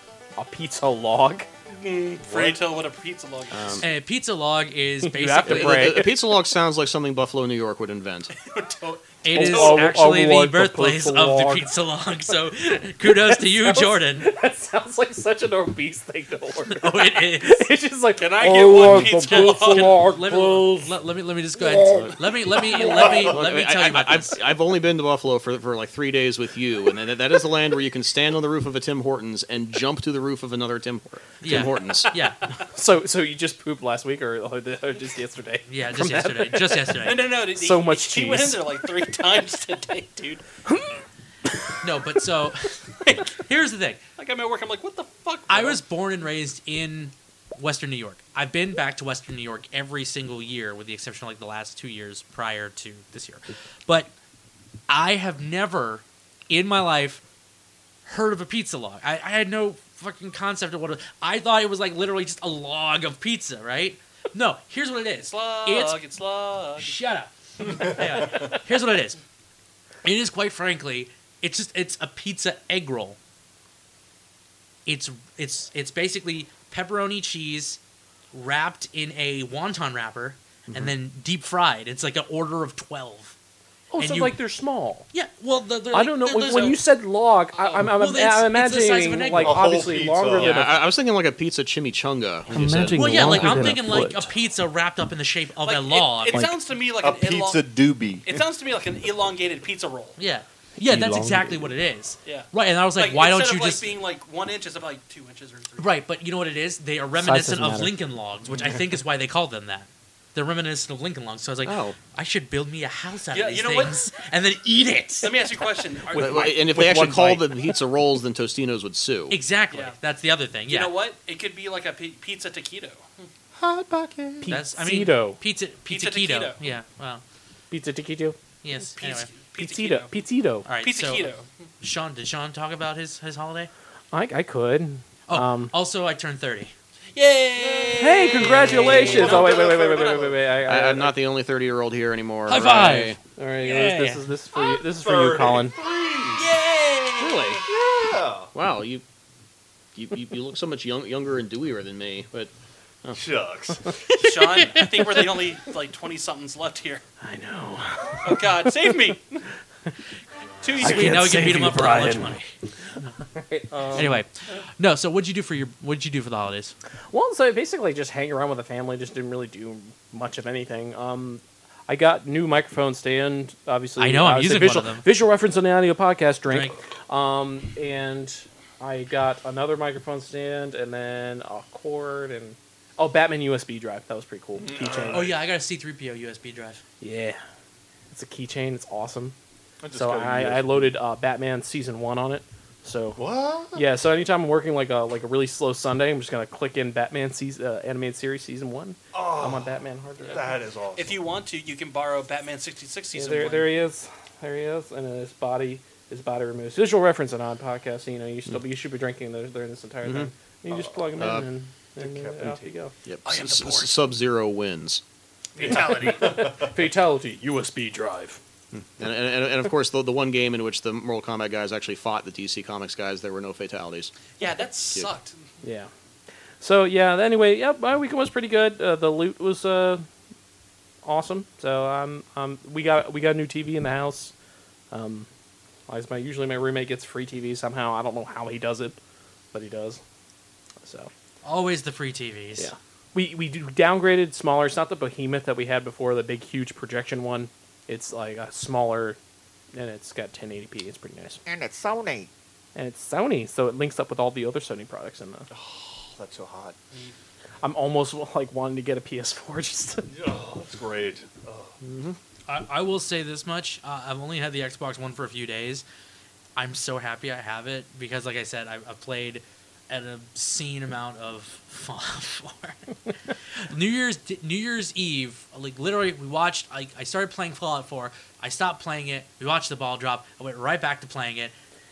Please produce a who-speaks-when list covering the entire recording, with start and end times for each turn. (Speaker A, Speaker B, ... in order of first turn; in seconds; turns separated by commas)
Speaker A: 0.4-1.5, Speaker B: 1.7-3.8, Speaker C: 2.3-2.5, Speaker D: 3.5-3.8, Speaker E: 3.8-6.0, Speaker A: 5.0-6.1, Speaker D: 5.4-8.3, Speaker B: 8.3-10.0, Speaker E: 9.2-14.3, Speaker A: 9.3-11.7, Speaker A: 13.0-20.9, Speaker E: 16.7-17.7, Speaker B: 18.2-20.0, Speaker E: 18.8-24.3, Speaker A: 21.6-23.2, Speaker C: 22.9-23.4, Speaker D: 23.3-32.1, Speaker E: 31.4-32.4, Speaker A: 32.7-36.9, Speaker E: 35.7-37.3, Speaker B: 37.0-40.4, Speaker A: 37.5-39.0, Speaker A: 40.7-41.0, Speaker E: 41.8-44.0, Speaker B: 44.2-45.8, Speaker E: 45.5-54.1, Speaker E: 54.9-57.2, Speaker E: 58.0-66.0, Speaker B: 65.2-66.9, Speaker E: 66.8-69.2, Speaker C: 67.6-68.5, Speaker E: 70.0-73.2, Speaker E: 74.8-77.8, Speaker E: 78.3-83.3, Speaker A: 83.9-85.1, Speaker E: 84.0-84.4, Speaker E: 85.1-86.8, Speaker A: 85.9-90.7, Speaker B: 86.4-86.8, Speaker B: 87.5-87.9, Speaker E: 87.9-89.8, Speaker C: 89.3-90.7, Speaker D: 90.4-93.7, Speaker A: 92.5-94.3, Speaker E: 92.9-96.4, Speaker B: 95.6-97.6, Speaker A: 96.3-96.6, Speaker C: 97.0-98.4, Speaker B: 98.2-100.2, Speaker E: 100.2-104.0, Speaker A: 100.8-101.7, Speaker B: 102.2-105.9, Speaker E: 105.8-115.6, Speaker A: 107.2-107.9, Speaker D: 111.6-112.0, Speaker B: 113.3-114.0, Speaker B: 115.2-116.5, Speaker A: 116.1-117.5, Speaker D: 116.2-119.4, Speaker E: 119.3-120.9, Speaker B: 119.7-120.0, Speaker B: 120.7-123.2, Speaker C: 123.5-124.5, Speaker A: 124.4-125.4, Speaker E: 124.5-127.2, Speaker B: 125.9-126.6, Speaker A: 127.7-128.4, Speaker E: 128.6-129.3, Speaker B: 129.0-130.2, Speaker A: 129.6-130.7, Speaker E: 130.7-133.7, Speaker B: 130.8-131.5, Speaker A: 134.1-135.7, Speaker E: 135.3-136.7, Speaker B: 137.1-140.3, Speaker C: 137.6-140.4, Speaker A: 138.0-141.1, Speaker D: 140.6-143.2, Speaker E: 142.5-144.2, Speaker A: 143.3-145.7, Speaker C: 144.6-146.6, Speaker B: 146.3-147.6, Speaker D: 147.2-147.6, Speaker C: 147.6-148.5, Speaker D: 148.5-149.0, Speaker D: 149.9-152.5, Speaker C: 153.1-153.9, Speaker B: 154.2-157.0, Speaker A: 157.2-159.1, Speaker B: 158.2-159.4, Speaker B: 160.6-161.3, Speaker E: 160.8-162.5, Speaker A: 160.8-162.3, Speaker A: 163.5-164.2, Speaker E: 163.9-166.7, Speaker A: 167.1-185.2, Speaker E: 174.0-175.1, Speaker E: 176.5-176.8, Speaker C: 184.6-185.4, Speaker E: 185.1-186.8, Speaker A: 187.0-187.4, Speaker A: 188.1-189.3, Speaker C: 189.8-191.0, Speaker A: 189.9-193.2, Speaker C: 193.2-193.9, Speaker A: 193.7-200.6, Speaker C: 199.1-201.3, Speaker B: 200.3-203.7, Speaker A: 203.1-212.9, Speaker D: 210.0-210.3, Speaker C: 210.7-211.4, Speaker D: 211.2-211.5, Speaker C: 212.0-212.7, Speaker D: 213.1-215.0, Speaker B: 213.2-213.9, Speaker C: 215.6-216.8, Speaker B: 215.6-216.4, Speaker A: 215.7-218.4, Speaker D: 218.7-224.1, Speaker B: 224.4-225.4, Speaker A: 225.6-225.9, Speaker A: 226.6-230.1, Speaker A: 231.0-234.3, Speaker A: 234.9-235.3, Speaker A: 235.9-239.0, Speaker A: 239.5-240.0, Speaker A: 240.8-241.1, Speaker E: 241.4-242.7, Speaker A: 242.6-249.2, Speaker A: 249.7-251.4, Speaker C: 251.5-252.3, Speaker A: 252.7-255.5, Speaker C: 255.5-256.8, Speaker A: 257.6-260.1, Speaker C: 260.1-261.8, Speaker D: 261.8-262.2, Speaker E: 262.5-265.8, Speaker E: 266.6-281.5